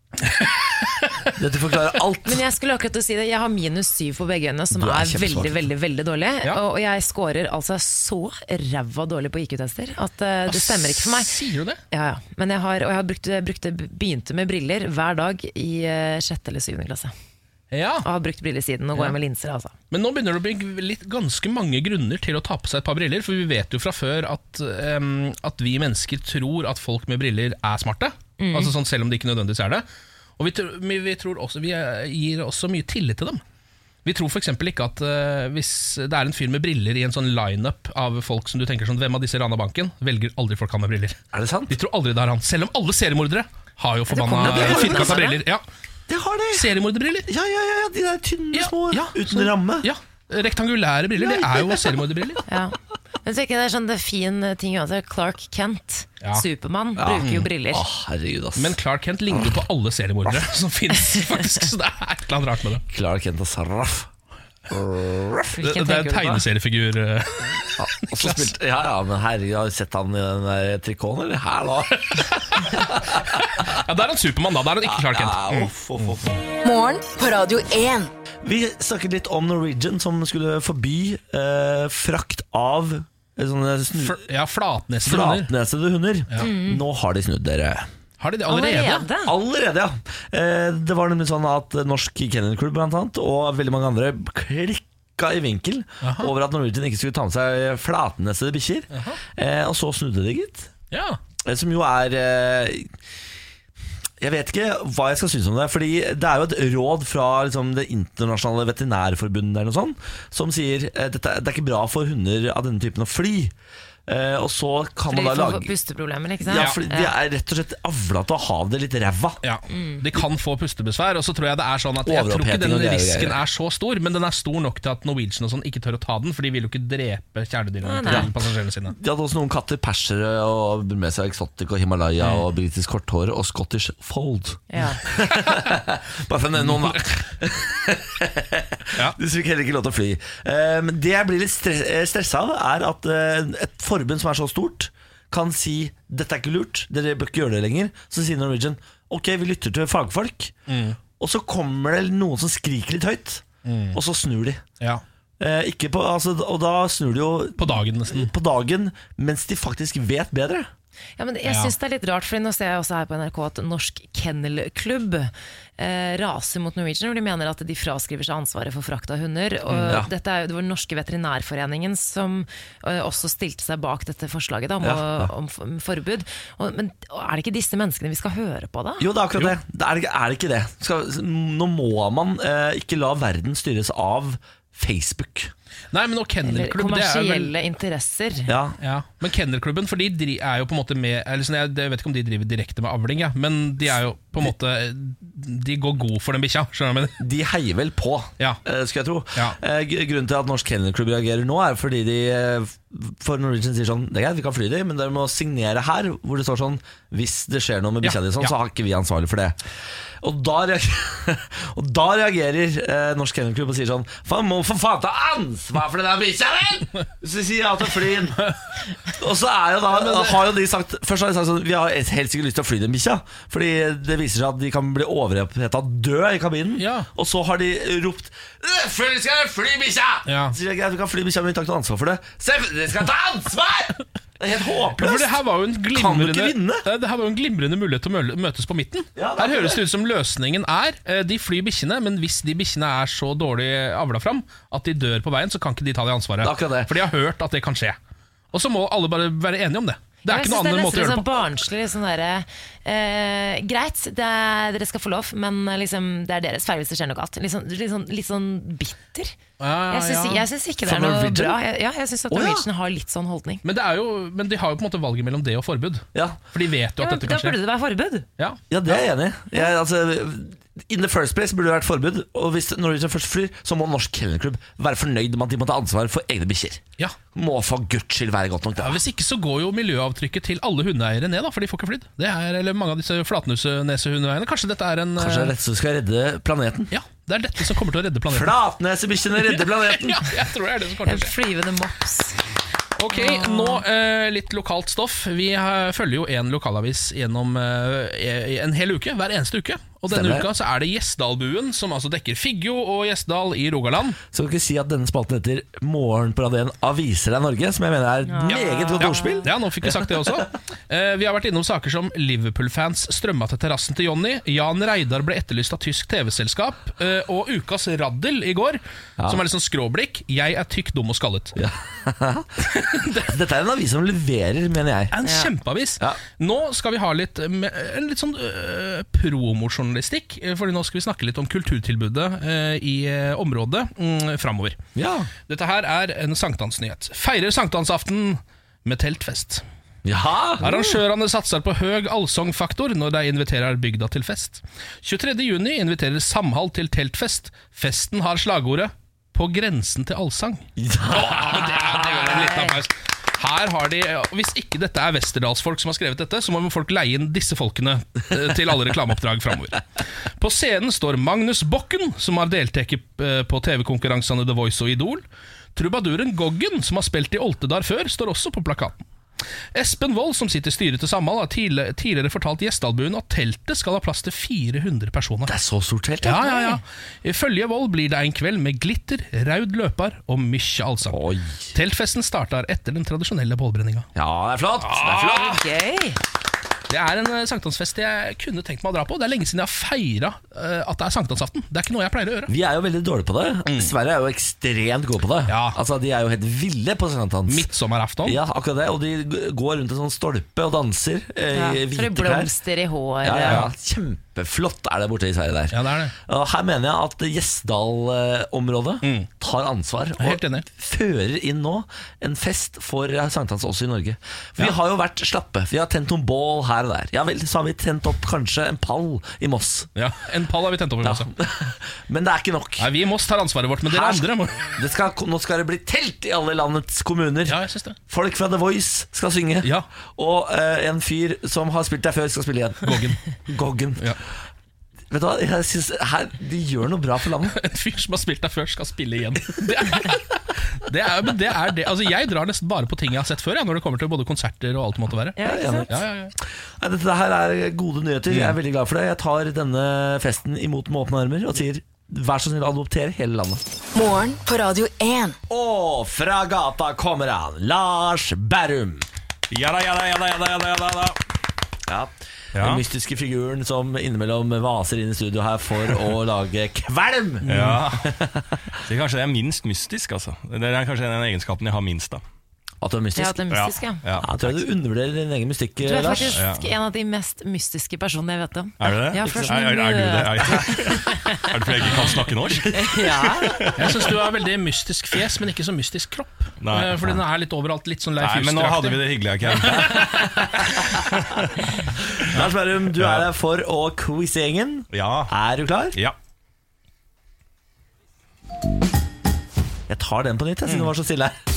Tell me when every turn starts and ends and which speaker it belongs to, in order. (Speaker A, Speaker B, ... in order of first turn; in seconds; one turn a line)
Speaker A: 0.2-1.1
Speaker B: 1.4-2.4
Speaker C: 2.2-11.3
Speaker B: 4.7-5.6
Speaker A: 10.5-11.8
Speaker C: 11.9-17.1
Speaker A: 17.7-18.1
Speaker C: 18.0-19.7
Speaker A: 19.9-29.9
Speaker C: 28.4-28.7
Speaker A: 30.4-33.4
Speaker A: 34.0-45.6
Speaker B: 41.3-41.8
Speaker C: 44.1-45.4
Speaker B: 44.4-45.3
Speaker B: 46.1-49.9
Speaker A: 46.5-47.3
Speaker A: 48.5-52.4
Speaker B: 51.2-52.0
Speaker C: 52.5-57.9
Speaker B: 57.0-58.8
Speaker A: 57.2-57.5
Speaker A: 58.6-62.8
Speaker B: 59.3-59.6
Speaker B: 60.2-60.5
Speaker B: 62.9-64.1
Speaker B: 64.7-65.6
Speaker C: 65.5-66.4
Speaker A: 65.6-68.5
Speaker B: 67.8-73.8
Speaker A: 72.2-76.4
Speaker B: 74.8-76.4
Speaker D: 76.6-78.1
Speaker B: 78.4-84.2
Speaker A: 84.0-85.5
Speaker B: 85.0-87.9
Speaker C: 86.4-86.8
Speaker A: 88.2-89.1
Speaker C: 88.5-89.3
Speaker B: 89.2-100.7
Speaker A: 96.0-96.3
Speaker A: 98.9-99.2
Speaker A: 100.9-101.2
Speaker B: 101.5-102.9
Speaker B: 104.2-113.5
Speaker B: 114.1-115.7
Speaker C: 115.1-117.1
Speaker B: 116.5-119.4
Speaker A: 116.5-116.8
Speaker A: 119.4-128.9
Speaker C: 119.7-120.0
Speaker B: 122.0-123.4
Speaker C: 127.8-128.3
Speaker B: 128.1-128.3
Speaker B: 128.9-150.5
Speaker C: 134.7-135.0
Speaker A: 136.6-137.1
Speaker A: 150.7-151.0
Speaker B: 151.2-154.6
Speaker A: 153.7-154.0
Speaker B: 155.4-160.7
Speaker A: 157.6-158.3
Speaker C: 161.2-179.1
Speaker A: 161.4-161.7
Speaker B: 169.8-170.1
Speaker B: 174.8-175.3
Speaker B: 179.0-185.5
Speaker A: 185.9-187.5
Speaker C: 186.4-188.5
Speaker B: 188.5-188.8
Speaker A: 188.8-197.2
Speaker B: 197.2-209.6
Speaker A: 208.0-208.5
Speaker B: 210.2-218.5
Speaker B: 219.2-235.4
Speaker A: 219.9-220.4
Speaker A: 226.8-227.1
Speaker A: 230.3-230.6
Speaker A: 235.0-248.0
Speaker B: 235.9-236.8
Speaker B: 239.2-239.8
Speaker B: 246.4-246.9
Speaker A: 248.5-251.3
Speaker C: 250.2-259.4
Speaker A: 259.6-260.4
Speaker C: 259.9-263.6
Speaker B: 260.9-261.6
Speaker A: 262.4-262.6
Speaker A: 263.6-267.6
Speaker B: 266.1-266.4
Speaker C: 267.0-268.3
Speaker B: 268.7-276.8
Speaker B: 277.3-279.0
Speaker A: 278.8-285.5
Speaker B: 285.2-286.9
Speaker A: 286.9-288.6
Speaker B: 288.3-290.3
Speaker A: 289.4-291.3
Speaker C: 291.1-292.5
Speaker A: 293.0-304.2
Speaker C: 293.1-293.8
Speaker B: 300.1-300.5
Speaker B: 304.3-310.4
Speaker C: 308.3-309.5
Speaker A: 308.5-321.6
Speaker B: 321.6-325.2
Speaker A: 322.8-323.3
Speaker A: 325.1-334.8
Speaker C: 325.2-325.5
Speaker B: 334.9-335.3
Speaker A: 335.5-339.6
Speaker B: 340.1-341.0
Speaker A: 340.6-365.2
Speaker B: 350.8-352.5
Speaker C: 352.1-352.7
Speaker A: 365.8-369.0
Speaker A: 369.7-375.5
Speaker B: 375.5-376.7
Speaker A: 376.2-381.2
Speaker B: 381.1-381.7
Speaker A: 381.7-384.1
Speaker B: 384.1-385.6
Speaker C: 385.1-386.2
Speaker A: 386.9-392.5
Speaker B: 392.5-397.7
Speaker A: 393.7-393.9
Speaker A: 395.5-395.8
Speaker A: 397.5-398.4
Speaker B: 398.2-402.5
Speaker C: 401.5-403.7
Speaker B: 403.2-419.9
Speaker A: 403.4-403.7
Speaker A: 405.7-406.1
Speaker A: 409.0-409.3
Speaker A: 410.2-410.7
Speaker A: 420.0-421.3
Speaker B: 421.0-422.9
Speaker A: 422.8-424.8
Speaker B: 423.9-427.6
Speaker A: 427.5-428.0
Speaker B: 428.1-434.2
Speaker A: 432.8-433.2
Speaker B: 435.1-437.6
Speaker A: 437.5-445.4
Speaker C: 445.4-445.9
Speaker B: 445.4-446.0
Speaker A: 445.9-446.3
Speaker B: 446.8-453.6
Speaker A: 448.3-448.6
Speaker D: 453.9-455.4
Speaker B: 455.5-459.1
Speaker E: 459.5-461.2
Speaker B: 461.9-468.5
Speaker E: 462.6-462.8
Speaker A: 467.4-467.8
Speaker E: 467.5-468.1
Speaker E: 468.9-472.2
Speaker B: 472.8-473.4
Speaker C: 473.2-474.0
Speaker E: 473.5-474.3
Speaker B: 474.2-476.4
Speaker C: 475.8-481.5
Speaker E: 476.3-476.7
Speaker E: 478.8-484.1
Speaker B: 479.2-479.6
Speaker C: 482.9-483.5
Speaker B: 482.9-483.5
Speaker A: 483.8-490.4
Speaker E: 486.6-487.2
Speaker E: 488.2-490.0
Speaker B: 489.8-490.7
Speaker E: 491.0-491.5
Speaker B: 492.2-496.0
Speaker E: 492.9-493.3
Speaker E: 494.9-495.3
Speaker B: 499.9-501.4